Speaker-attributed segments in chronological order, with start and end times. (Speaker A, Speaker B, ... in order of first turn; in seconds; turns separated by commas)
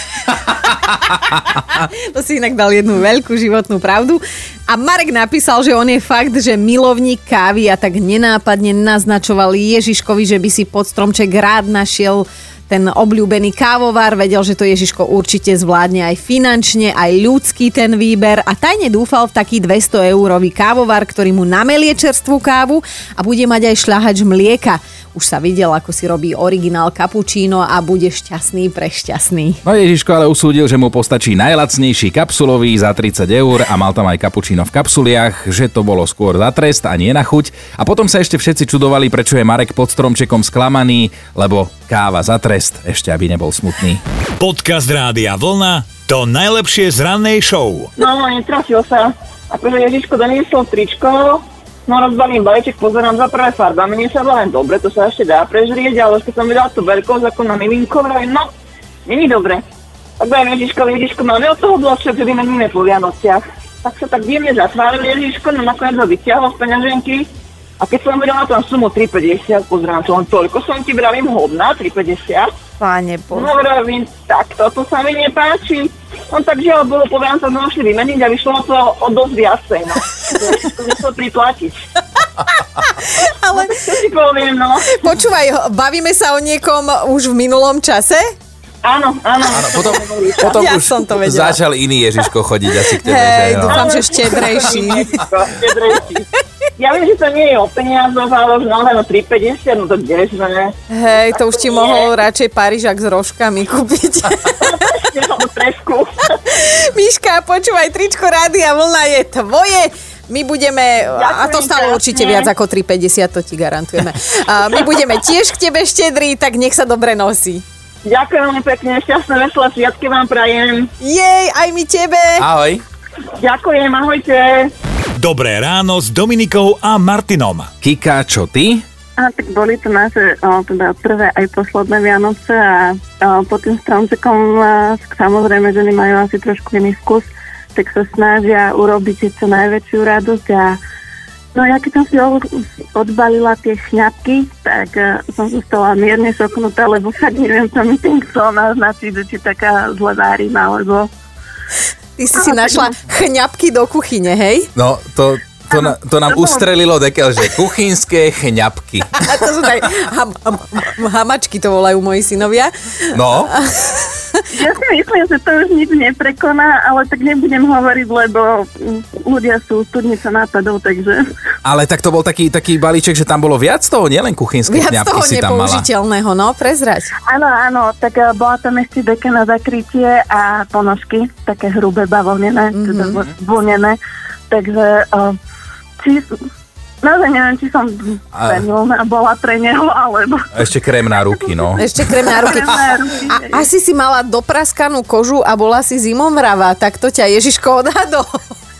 Speaker A: 0.5-0.9, Speaker B: 1.1-29.6, Speaker A: 29.6-44.0, Speaker C: 44.4-47.9, Speaker D: 48.0-58.5, Speaker D: 59.1-59.6, Speaker D: 60.2-67.3, Speaker D: 67.8-72.5, Speaker B: 72.8-73.5, Speaker D: 73.3-81.8, Speaker B: 82.4-84.0, Speaker D: 83.6-84.9, Speaker B: 84.8-88.2, Speaker D: 88.8-90.6, Speaker A: 89.5-93.8, Speaker B: 90.4-91.6, Speaker B: 92.2-95.2, Speaker D: 93.6-100.7, Speaker B: 100.9-105.0, Speaker D: 101.4-102.1, Speaker D: 104.6-106.1, Speaker B: 106.5-117.6, Speaker D: 111.2-112.5, Speaker D: 118.0-120.9, Speaker B: 121.0-122.5, Speaker A: 122.4-122.8, Speaker D: 123.4-124.7, Speaker C: 125.2-127.7, Speaker A: 127.8-128.8, Speaker E: 129.2-140.8, Speaker E: 141.5-142.4, Speaker E: 142.9-151.1, Speaker B: 152.2-154.7, Speaker E: 152.4-152.9, Speaker A: 154.8-159.1, Speaker E: 155.7-156.7, Speaker B: 159.2-164.4, Speaker A: 163.1-163.5, Speaker E: 164.5-171.2, Speaker A: 171.7-175.9, Speaker B: 174.7-177.1, Speaker E: 177.3-184.0, Speaker B: 182.7-183.2, Speaker E: 184.5-185.3, Speaker E: 187.0-190.4, Speaker A: 188.4-188.6, Speaker A: 190.6-191.8, Speaker E: 191.6-193.7, Speaker B: 191.8-198.5